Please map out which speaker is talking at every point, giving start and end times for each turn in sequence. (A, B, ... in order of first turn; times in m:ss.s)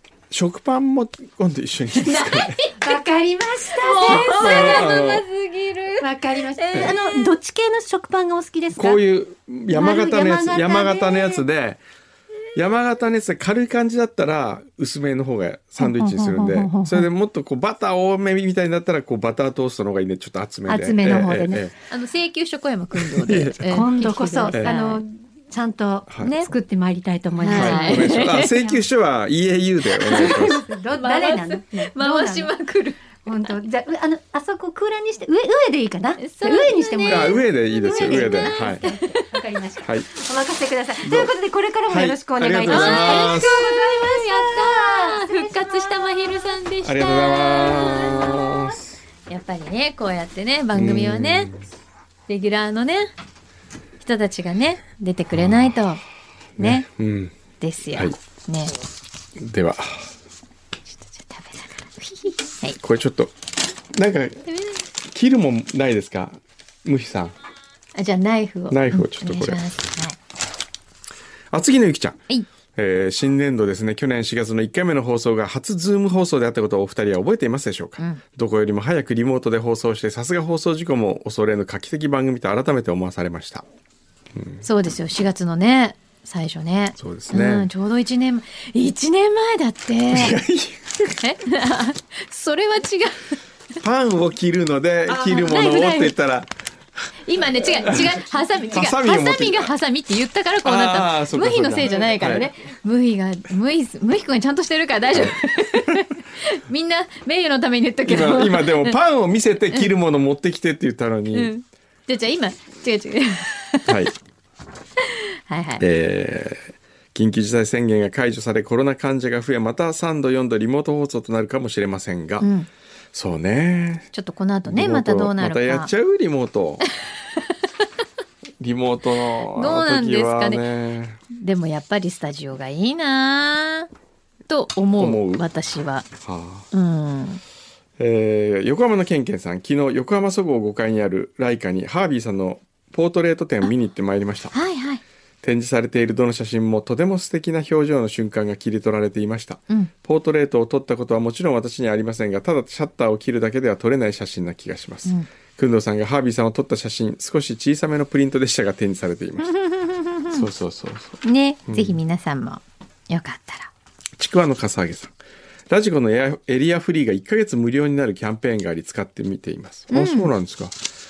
0:00.3-0:02.6 A
0:02.0-0:03.0 B
0:02.8-0:04.9 C
0:03.7-0:07.3 B
0:04.0-0:05.2 A
0:06.0-0:09.0 C
0:08.8-0:11.8 A
0:09.7-0:11.4 C
0:12.6-0:21.7 A
0:15.8-0:17.1 C
0:20.7-0:21.7 C
0:21.9-0:25.0 B
0:23.0-0:23.7 A
0:23.6-0:28.7 C
0:24.5-0:24.8 A
0:26.1-0:26.4 A
0:26.2-0:26.5 B
0:27.4-0:28.7 B
0:27.5-0:30.6 A
0:30.0-0:32.5 C
0:30.9-0:33.2 B
0:33.2-0:46.0 C
0:36.2-0:39.2 B
0:37.1-0:38.8 A
0:41.0-0:41.3 A
0:41.9-0:43.6 A
0:42.6-0:48.5 B
0:46.8-0:48.9 A
0:49.3-0:51.5 B
0:50.7-0:51.6 A
0:52.3-0:53.1 B
0:54.0-0:56.0 B
0:55.4-0:55.8 A
0:56.6-0:56.9 B
0:56.6-0:57.3 A
0:57.6-0:58.8 B
0:59.4-1:00.1 A
1:00.9-1:02.8 B
1:02.8-1:03.3 A
1:03.9-1:04.4 A
1:04.5-1:04.8 B
1:05.0-1:07.4 A
1:08.0-1:10.2 B
1:08.7-1:09.6 A
1:11.5-1:12.2 A
1:12.8-1:23.6 A
1:24.4-1:24.7 A
1:24.6-1:30.4 B
1:27.0-1:27.7 A
1:30.1-1:30.9 A
1:31.2-1:33.4 B
1:33.8-1:36.5 A
1:35.1-1:36.1 B
1:37.2-1:49.0 B
1:37.7-1:39.7 A
1:40.6-1:42.5 A
1:48.1-1:51.5 A
1:51.3-1:54.1 B
1:53.9-1:54.1 A
1:55.0-1:55.9 B
1:55.8-2:02.5 A
2:02.4-2:02.7 B
2:03.1-2:04.1 A
2:04.1-2:05.9 B
2:04.7-2:06.8 A
2:08.6-2:11.2 A
2:09.5-2:10.6 B
2:11.3-2:13.9 B
2:14.5-2:16.1 B
2:15.0-2:15.4 A
2:16.2-2:16.7 A
2:16.7-2:17.4 B
2:18.0-2:24.5 A
2:24.5-2:25.0 B
2:25.4-2:39.5 A
2:39.4-2:40.5 B
2:40.3-2:42.0 A
2:41.2-2:43.7 B
2:44.2-2:45.1 A
2:45.7-2:50.8 A
2:49.9-2:50.3 B